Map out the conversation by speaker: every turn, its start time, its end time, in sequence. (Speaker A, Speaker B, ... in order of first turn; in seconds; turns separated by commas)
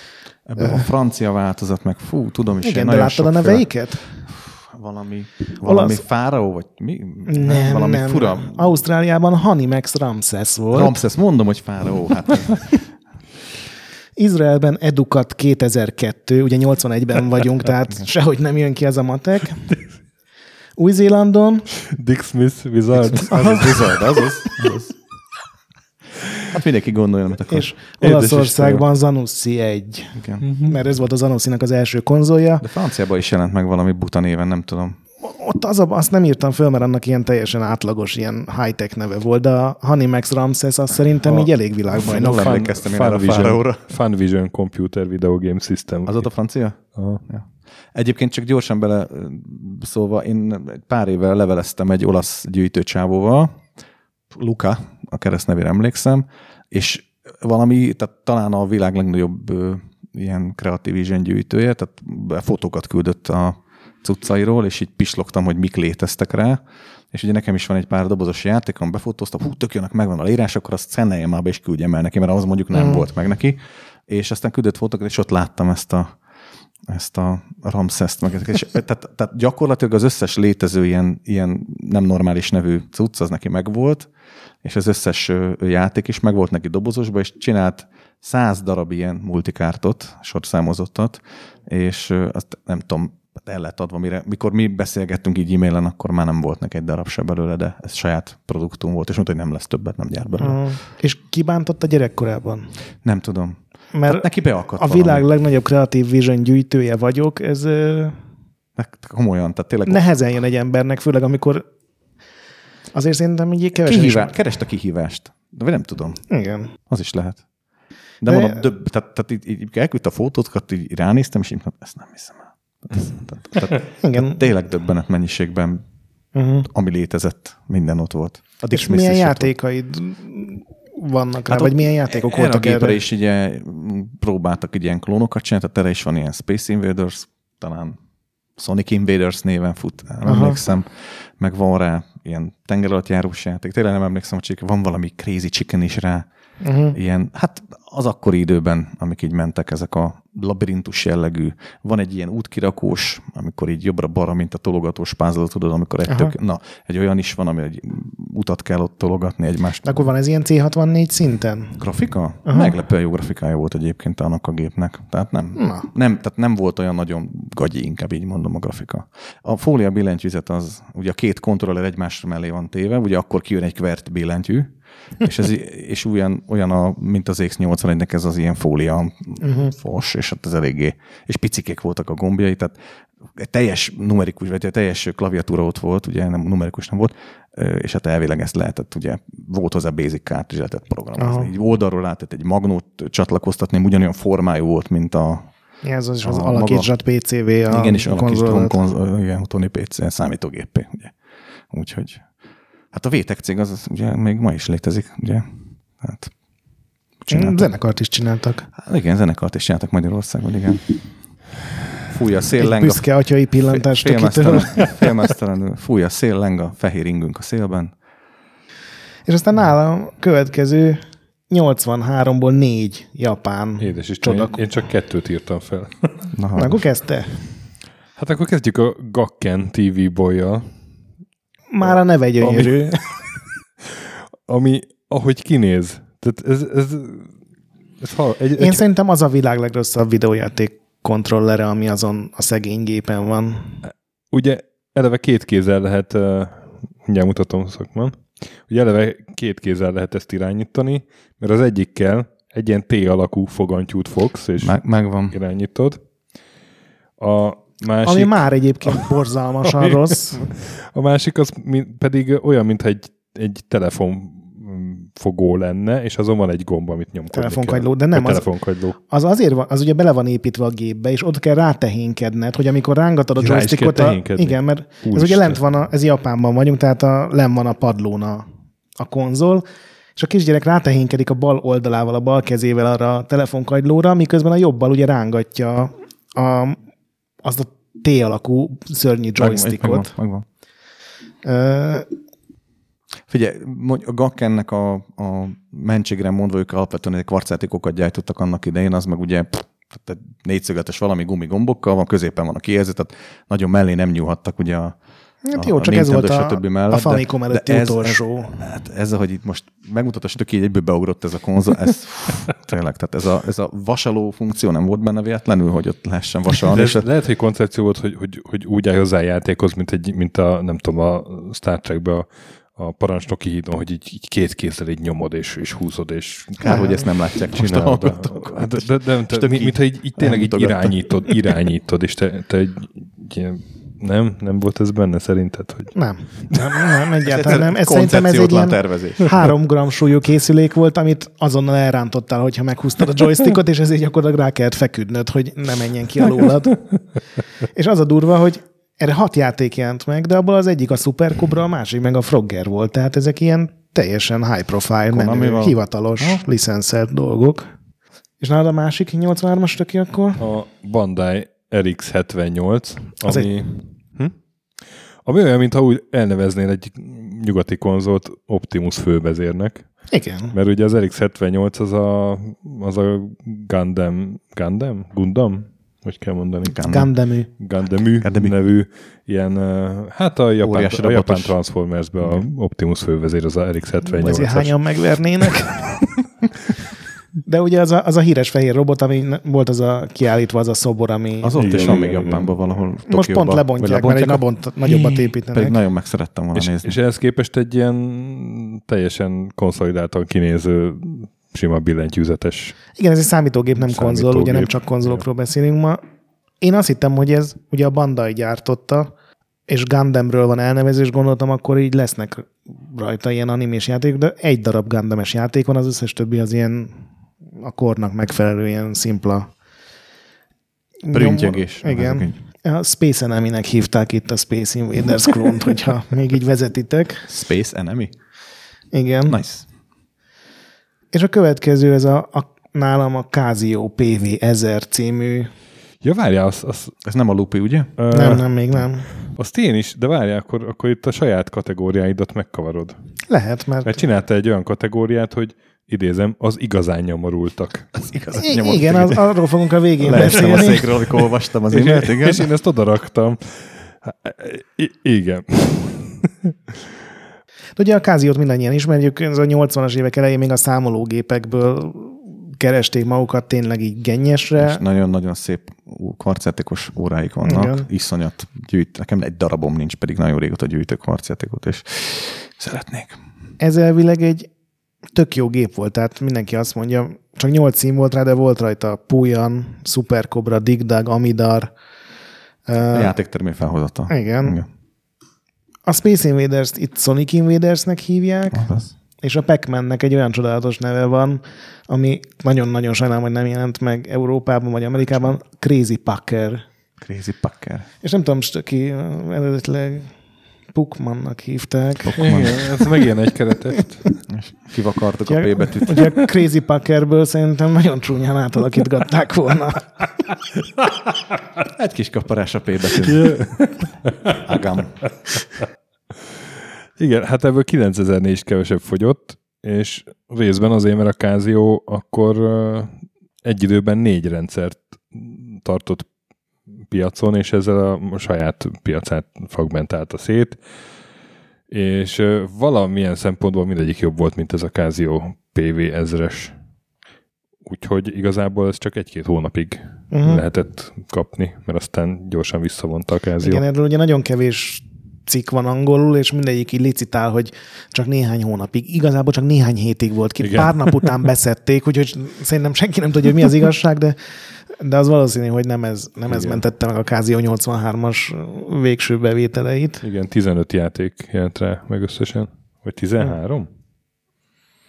Speaker A: 0.5-8.7, Speaker B: 0.6-0.8, Speaker B: 2.6-4.2, Speaker B: 5.6-6.0, Speaker B: 7.3-11.0, Speaker A: 10.7-12.8, Speaker B: 14.2-19.8, Speaker B: 20.8-21.7, Speaker C: 21.8-24.8, Speaker A: 23.1-24.9, Speaker A: 26.5-27.8, Speaker B: 27.5-32.6, Speaker C: 28.0-28.8, Speaker A: 30.1-30.5, Speaker C: 30.4-30.8, Speaker A: 32.6-35.0, Speaker B: 35.2-42.6, Speaker A: 41.9-43.9, Speaker C: 42.1-46.3, Speaker A: 46.1-53.6, Speaker C: 47.0-47.2, Speaker A: 54.3-66.6, Speaker A: 67.1-76.2, Speaker B: 72.7-73.0, Speaker A: 76.9-84.1, Speaker A: 84.6-100.7, Speaker B: 100.4-102.8, Speaker A: 103.0-105.2, Speaker B: 103.9-108.2, Speaker A: 108.8-110.0, Speaker B: 109.9-111.7, Speaker B: 112.9-114.3, Speaker A: 113.8-116.3, Speaker B: 116.3-116.7, Speaker A: 116.8-117.4, Speaker A: 118.2-125.8, Speaker B: 118.3-118.6, Speaker B: 124.0-124.4, Speaker B: 126.3-126.7, Speaker A: 126.7-129.5, Speaker B: 128.7-133.0, Speaker A: 131.5-138.0, Speaker A: 138.6-146.3, Speaker B: 140.2-140.6, Speaker B: 146.6-147.0, Speaker A: 146.9-160.1, Speaker B: 156.1-156.3, Speaker B: 159.8-161.8, Speaker A: 161.8-195.5, Speaker B: 162.5-162.7, Speaker B: 165.6-165.9, Speaker B: 179.4-179.7, Speaker B: 191.2-191.5, Speaker B: 195.8-198.8, Speaker A: 196.2-196.9, Speaker A: 197.7-201.2, Speaker A: 201.7-202.3, Speaker A: 202.9-206.3, Speaker A: 207.2-207.7, Speaker B: 207.3-208.7, Speaker A: 208.8-210.9, Speaker A: 212.1-213.1, Speaker B: 212.6-215.1, Speaker A: 213.7-217.9, Speaker B: 219.3-224.6, Speaker C: 223.8-226.3, Speaker A: 226.3-226.8, Speaker B: 226.6-227.6, Speaker C: 228.2-230.7, Speaker B: 231.7-232.9, Speaker C: 231.8-233.4, Speaker C: 234.5-237.3, Speaker C: 238.0-238.8, Speaker B: 238.6-243.8, Speaker C: 244.3-254.8, Speaker A: 254.6-255.4, Speaker C: 255.3-256.0, Speaker C: 257.2-269.0, Speaker B: 258.0-260.5, Speaker B: 267.3-268.5, Speaker B: 269.0-278.5, Speaker C: 273.4-275.6, Speaker B: 279.0-279.6, Speaker B: 280.2-286.8, Speaker B: 287.4-290.1, Speaker A: 289.4-290.5, Speaker B: 291.4-292.1, Speaker A: 293.3-305.0, Speaker B: 305.4-308.6, Speaker A: 305.5-317.1, Speaker C: 316.7-336.0, Speaker A: 326.5-331.4, Speaker B: 326.6-327.0, Speaker B: 335.9-346.9, Speaker C: 336.5-337.0, Speaker A: 337.2-339.4, Speaker B: 347.6-357.7, Speaker A: 355.1-356.4, Speaker B: 358.4-360.4, Speaker C: 360.4-363.9, Speaker B: 363.3-363.5, Speaker C: 365.2-376.9, Speaker B: 370.1-370.6, Speaker A: 376.6-377.1, Speaker B: 376.9-377.5, Speaker C: 377.6-384.8, Speaker A: 378.2-378.5, Speaker A: 380.6-381.6, Speaker A: 382.2-382.5, Speaker B: 384.2-386.0, Speaker B: 387.4-391.6, Speaker A: 391.4-397.0, Speaker C: 391.6-392.5, Speaker B: 393.1-395.8, Speaker C: 396.6-402.8, Speaker B: 403.0-406.0, Speaker C: 403.8-404.7, Speaker B: 406.6-409.1, Speaker B: 409.7-417.0, Speaker B: 417.6-419.5, Speaker B: 421.1-427.3, Speaker A: 421.1-422.4, Speaker A: 427.3-428.1, Speaker B: 428.9-429.4, Speaker A: 429.3-429.7, Speaker B: 431.1-435.5, Speaker C: 436.0-437.0, Speaker A: 437.1-437.9, Speaker C: 438.0-438.5, Speaker B: 438.1-439.1, Speaker C: 439.2-443.0, Speaker B: 443.3-443.9, Speaker C: 443.8-448.1, Speaker A: 448.0-449.2, Speaker B: 448.4-450.9, Speaker A: 450.0-452.5, Speaker C: 451.7-456.8, Speaker B: 457.8-464.8, Speaker A: 464.6-473.2, Speaker B: 467.4-467.9, Speaker B: 473.6-474.5, Speaker B: 475.1-481.7, Speaker B: 482.7-483.1, Speaker A: 482.9-484.7, Speaker B: 484.1-484.6, Speaker B: 485.9-496.6, Speaker A: 488.5-488.9, Speaker A: 497.0-497.9, Speaker B: 498.0-500.1, Speaker B: 500.7-502.6, Speaker A: 502.1-502.7, Speaker C: 502.2-504.1, Speaker A: 504.3-506.2, Speaker B: 505.3-510.1, Speaker A: 511.7-513.6, Speaker C: 513.0-514.5, Speaker A: 514.3-515.0, Speaker C: 515.4-515.6, Speaker C: 517.0-526.1, Speaker C: 526.9-530.6, Speaker C: 531.7-536.5, Speaker C: 537.6-543.6, Speaker B: 540.1-540.4, Speaker B: 543.4-554.2, Speaker C: 550.4-551.1, Speaker B: 554.7-560.0, Speaker C: 556.3-556.6, Speaker C: 560.0-563.7